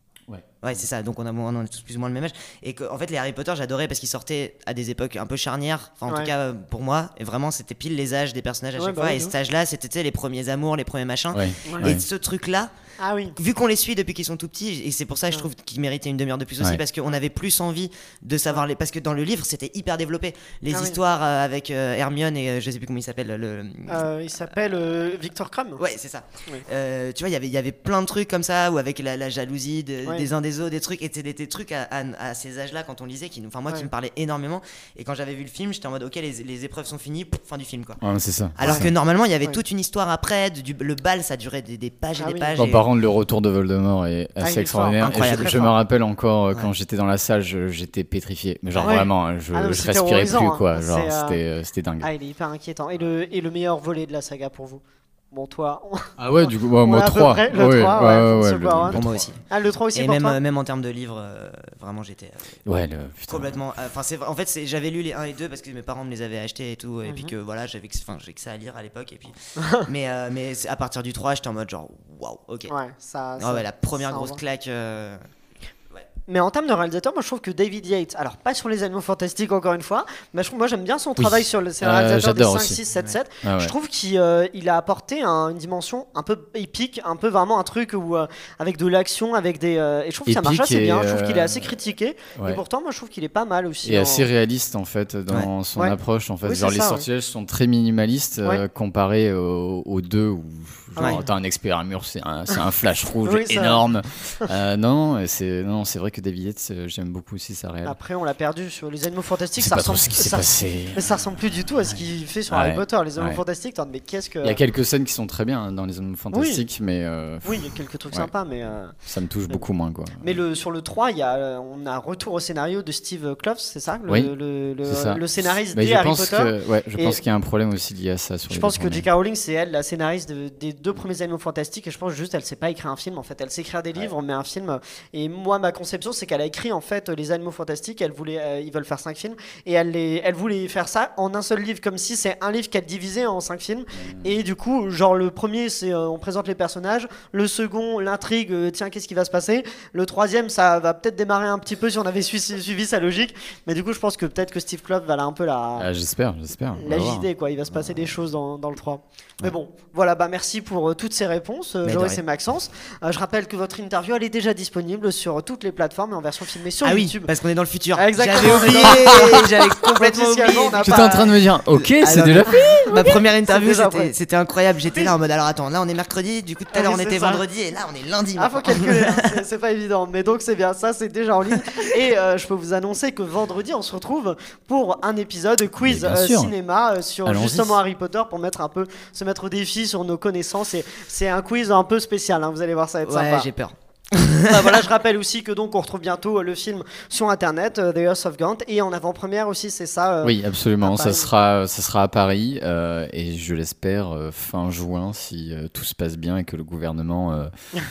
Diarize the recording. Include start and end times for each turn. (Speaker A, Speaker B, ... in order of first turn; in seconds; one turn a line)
Speaker A: 0.6-12.7
Speaker B: 8.8-9.3
Speaker C: 11.3-12.0
Speaker B: 11.6-11.9
Speaker B: 13.0-13.3
Speaker A: 13.3-24.5
Speaker B: 20.7-21.0
Speaker B: 23.9-25.8
Speaker A: 25.8-38.0
Speaker C: 38.0-38.9
Speaker A: 38.5-42.8
Speaker B: 42.2-42.6
Speaker C: 42.6-52.1
Speaker B: 44.4-45.8
Speaker A: 45.0-45.7
Speaker A: 48.7-49.0
Speaker B: 48.8-51.4
Speaker B: 52.0-54.8
Speaker B: 55.3-60.4
Speaker C: 56.2-59.2
Speaker A: 58.9-59.4
Speaker A: 59.9-62.6
Speaker C: 62.6-63.6
Speaker A: 63.3-72.7
Speaker B: 67.0-67.3
Speaker B: 69.6-69.9
Speaker B: 72.7-74.4
Speaker A: 73.4-75.2
Speaker B: 76.3-94.3
Speaker C: 81.2-82.8
Speaker C: 83.4-83.7
Speaker C: 90.3-91.7
Speaker C: 92.4-92.6
Speaker C: 93.8-108.0
Speaker B: 95.7-97.0
Speaker B: 101.0-101.2
Speaker B: 103.2-103.8
Speaker B: 107.8-114.6
Speaker C: 109.6-111.0
Speaker C: 112.5-113.4
Speaker C: 114.4-118.3
Speaker B: 116.3-116.6
Speaker B: 117.4-118.9
Speaker C: 119.0-120.3
Speaker B: 120.2-127.2
Speaker C: 124.1-129.1
Speaker B: 128.5-155.9
Speaker C: 143.9-144.3
Speaker C: 155.8-157.3
Speaker B: 156.8-167.3
Speaker A: 161.8-162.2
Speaker A: 166.8-179.3
Speaker B: 167.9-171.4
Speaker C: 168.4-169.3
Speaker C: 170.8-173.0
Speaker B: 172.5-174.1
Speaker B: 176.7-177.4
Speaker B: 178.3-193.5
Speaker C: 185.8-186.5
Speaker C: 187.2-187.8
Speaker A: 193.0-194.8
Speaker B: 194.5-201.3
Speaker C: 200.2-207.5